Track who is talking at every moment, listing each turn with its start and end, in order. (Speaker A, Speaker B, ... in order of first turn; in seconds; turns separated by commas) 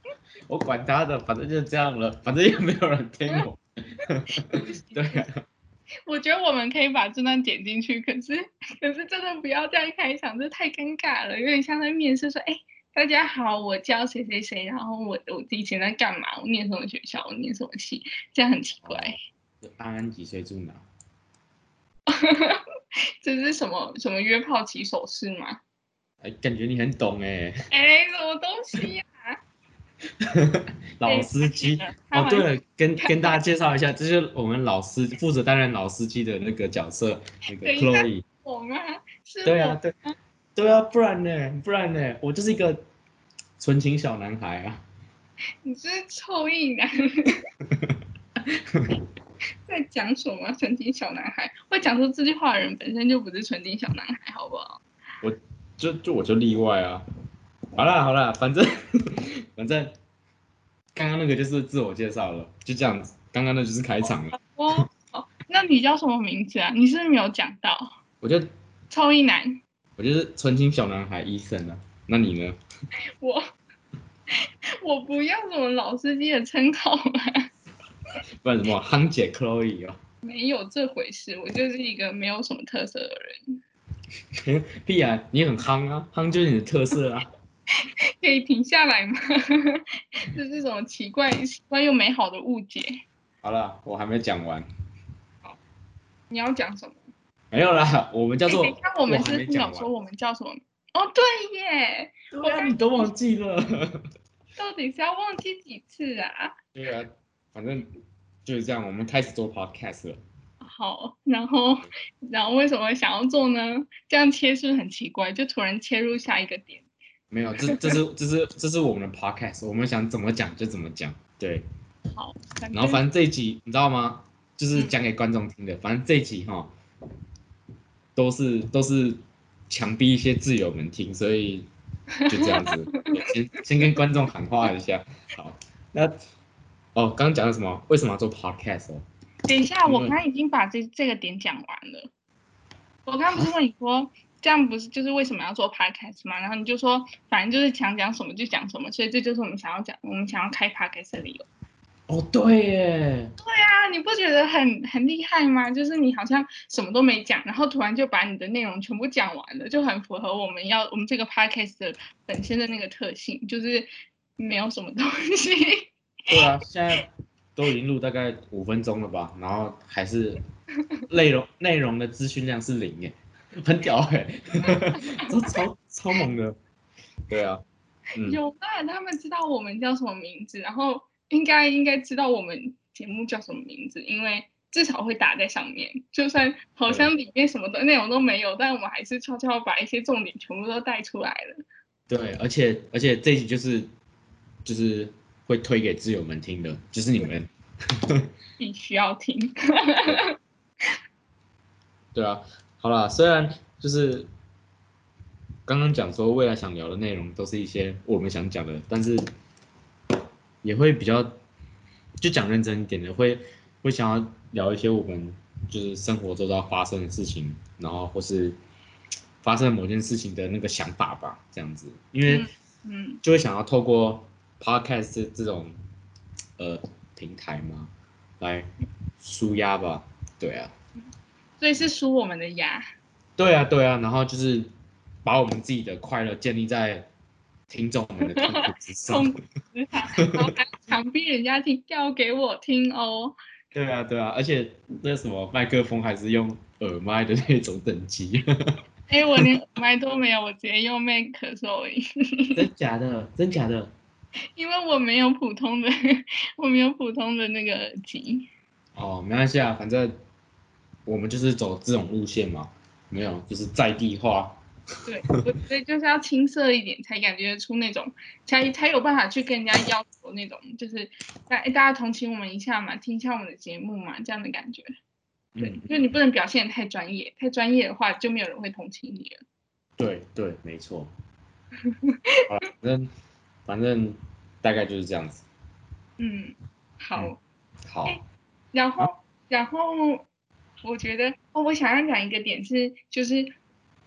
Speaker A: 0.5-5.4, Speaker B: 4.5-5.3, Speaker B: 6.1-19.2, Speaker A: 18.9-20.9, Speaker B: 22.1-22.6, Speaker B: 23.2-25.6, Speaker A: 26.2-27.6, Speaker B: 27.7-29.4, Speaker A: 30.2-38.2, Speaker B: 31.1-33.4, Speaker B: 37.6-40.1, Speaker A: 39.4-39.9, Speaker A: 40.6-42.8, Speaker A: 43.6-44.8, Speaker B: 45.6-47.4, Speaker A: 48.7-49.0, Speaker B: 49.7-54.8, Speaker A: 55.2-57.0, Speaker A: 57.8-59.9, Speaker A: 61.0-64.4, Speaker B: 64.3-67.9, Speaker A: 68.2-68.5, Speaker B: 68.9-69.6, Speaker A: 70.0-72.6, Speaker B: 74.8-77.5, Speaker A: 78.4-80.0, Speaker B: 80.2-83.6, Speaker A: 84.4-87.3, Speaker B: 88.2-93.0, Speaker A: 93.4-94.7, Speaker B: 96.3-97.0, Speaker A: 97.5-99.9, Speaker B: 98.5-103.1, Speaker A: 102.3-104.0, Speaker B: 104.6-106.5, Speaker A: 106.8-107.9, Speaker A: 108.5-110.2, Speaker B: 110.6-116.8, Speaker A: 117.3-121.7, Speaker B: 117.6-118.0, Speaker B: 122.2-123.0, Speaker A: 122.7-126.7, Speaker A: 128.2-131.7, Speaker B: 132.2-133.1, Speaker A: 132.3-136.2, Speaker A: 136.9-139.1, Speaker B: 139.5-142.1, Speaker A: 139.8-140.2, Speaker B: 143.1-151.5, Speaker A: 152.1-153.3, Speaker B: 153.4-163.9, Speaker B: 164.4-165.9, Speaker A: 166.3-170.4, Speaker A: 171.1-176.6, Speaker A: 177.3-177.6, Speaker B: 178.2-191.6, Speaker A: 186.9-187.1, Speaker A: 192.1-193.9, Speaker A: 194.7-197.5, Speaker B: 198.6-200.3, Speaker A: 202.2-204.3, Speaker A: 205.7-209.2, Speaker A: 210.6-211.4, Speaker A: 212.2-218.6, Speaker A: 219.4-222.5, Speaker B: 222.3-223.2, Speaker A: 223.2-225.8, Speaker A: 226.6-228.7, Speaker A: 229.2-230.7, Speaker B: 231.6-232.8, Speaker A: 233.4-234.7, Speaker A: 235.2-237.1, Speaker A: 237.7-239.3, Speaker B: 238.2-243.3, Speaker A: 240.2-240.5, Speaker A: 243.7-248.5, Speaker B: 249.1-252.6, Speaker A: 252.6-253.9, Speaker B: 254.6-258.5, Speaker A: 259.0-260.2, Speaker A: 261.1-264.6, Speaker B: 265.1-274.9, Speaker A: 275.6-276.0, Speaker B: 275.6-279.4, Speaker A: 280.0-281.1, Speaker B: 281.9-282.5, Speaker A: 282.5-283.1, Speaker A: 283.7-285.4, Speaker B: 286.2-287.4, Speaker A: 287.9-288.2, Speaker B: 288.7-290.3, Speaker B: 290.8-293.5